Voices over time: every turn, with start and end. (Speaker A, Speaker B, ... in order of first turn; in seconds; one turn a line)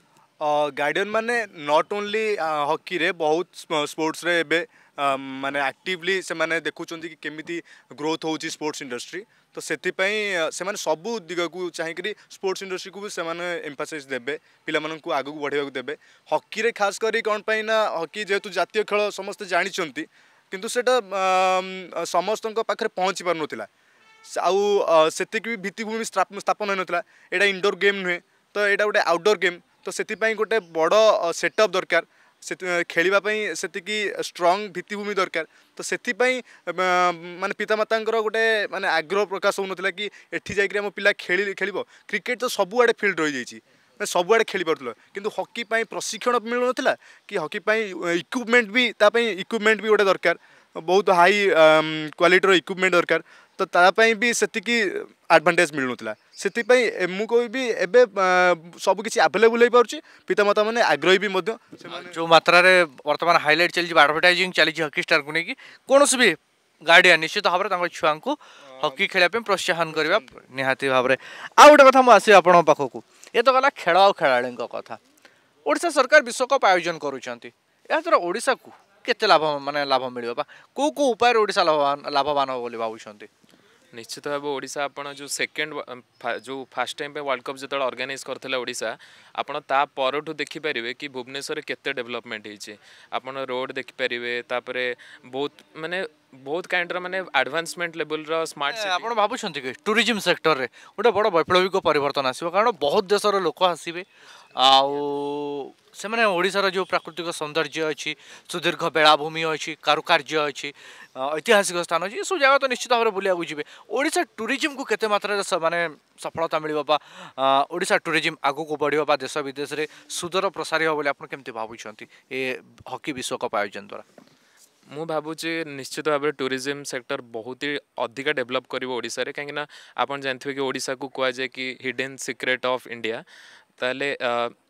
Speaker A: 0.4-23.7
Speaker A: 24.3-62.2
Speaker B: 61.9-75.0
Speaker A: 68.7-69.0
Speaker A: 69.9-70.3
Speaker B: 75.7-83.3
Speaker C: 83.9-99.1
Speaker B: 98.7-124.0
Speaker C: 124.9-133.2
Speaker C: 133.8-134.5